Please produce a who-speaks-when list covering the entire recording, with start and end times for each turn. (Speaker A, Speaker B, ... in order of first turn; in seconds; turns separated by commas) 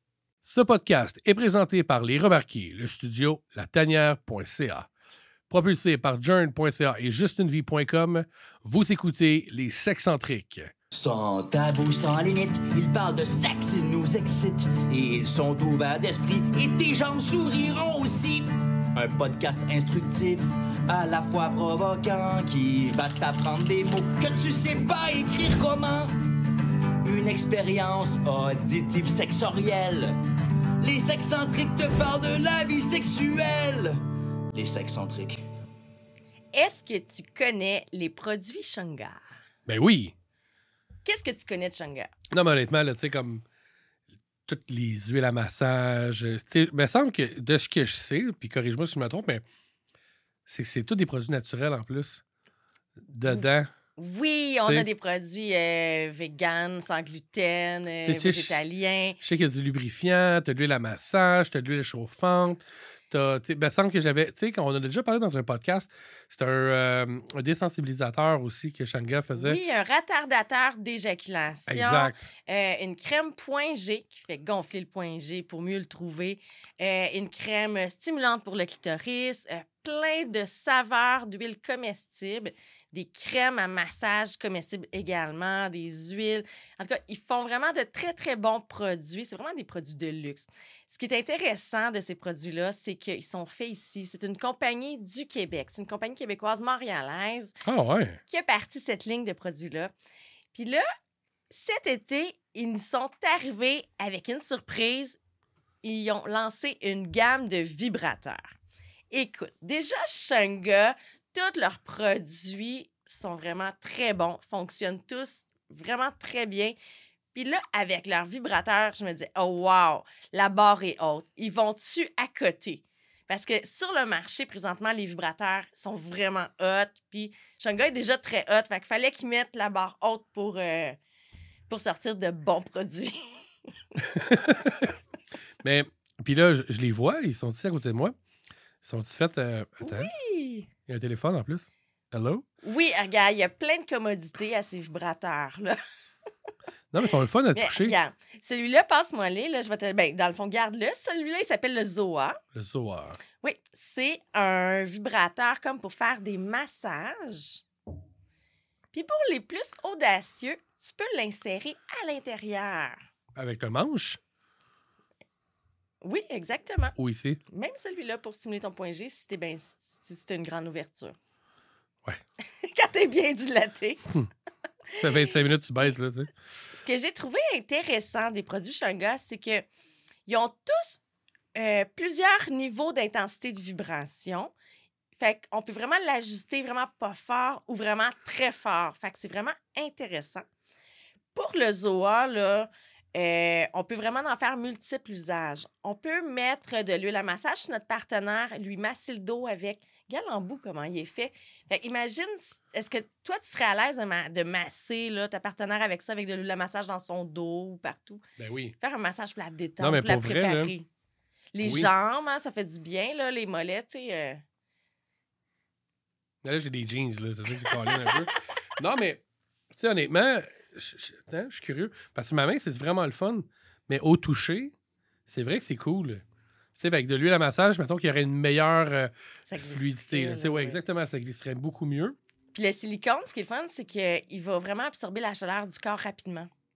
Speaker A: 0.4-4.9, Speaker A: 5.5-10.7, Speaker B: 10.9-26.1, Speaker B: 27.0-30.1, Speaker B: 30.8-34.0, Speaker B: 34.5-35.4, Speaker C: 36.5-39.2, Speaker A: 39.7-40.1, Speaker C: 41.0-42.1, Speaker A: 42.3-43.4, Speaker A: 44.5-49.4, Speaker A: 50.5-52.2, Speaker A: 53.0-53.7, Speaker C: 54.0-59.2, Speaker A: 54.6-54.9, Speaker A: 58.0-58.6, Speaker A: 59.2-69.6, Speaker C: 69.3-97.5, Speaker A: 71.7-72.3, Speaker A: 97.6-98.2, Speaker C: 98.3-99.9, Speaker C: 100.5-100.8, Speaker C: 101.5-105.2, Speaker C: 105.8-108.5, Speaker C: 109.1-116.8, Speaker C: 117.3-131.0, Speaker C: 131.7-134.0, Speaker A: 134.1-134.9, Speaker A: 135.6-138.1, Speaker A: 138.8-140.1, Speaker C: 139.8-140.7, Speaker A: 140.9-142.4, Speaker C: 142.6-145.8, Speaker A: 146.9-148.0, Speaker C: 147.5-152.4, Speaker A: 152.5-153.2, Speaker C: 153.4-157.6, Speaker C: 158.9-163.0, Speaker A: 163.3-164.2, Speaker C: 166.0-166.9, Speaker A: 167.0-167.4, Speaker C: 167.5-171.2, Speaker C: 172.5-174.1, Speaker A: 175.0-176.3, Speaker C: 175.0-175.3, Speaker C: 176.7-179.7, Speaker C: 180.3-181.0, Speaker C: 181.5-184.5, Speaker C: 185.1-190.4, Speaker C: 191.3-208.2, Speaker A: 208.4-208.7, Speaker C: 208.8-210.9, Speaker A: 209.8-210.7, Speaker C: 211.5-214.4, Speaker A: 211.6-211.9, Speaker A: 216.4-219.2, Speaker C: 217.7-218.2, Speaker A: 219.7-224.7, Speaker A: 225.3-226.2, Speaker A: 226.8-232.2, Speaker C: 229.5-230.8, Speaker C: 232.5-236.5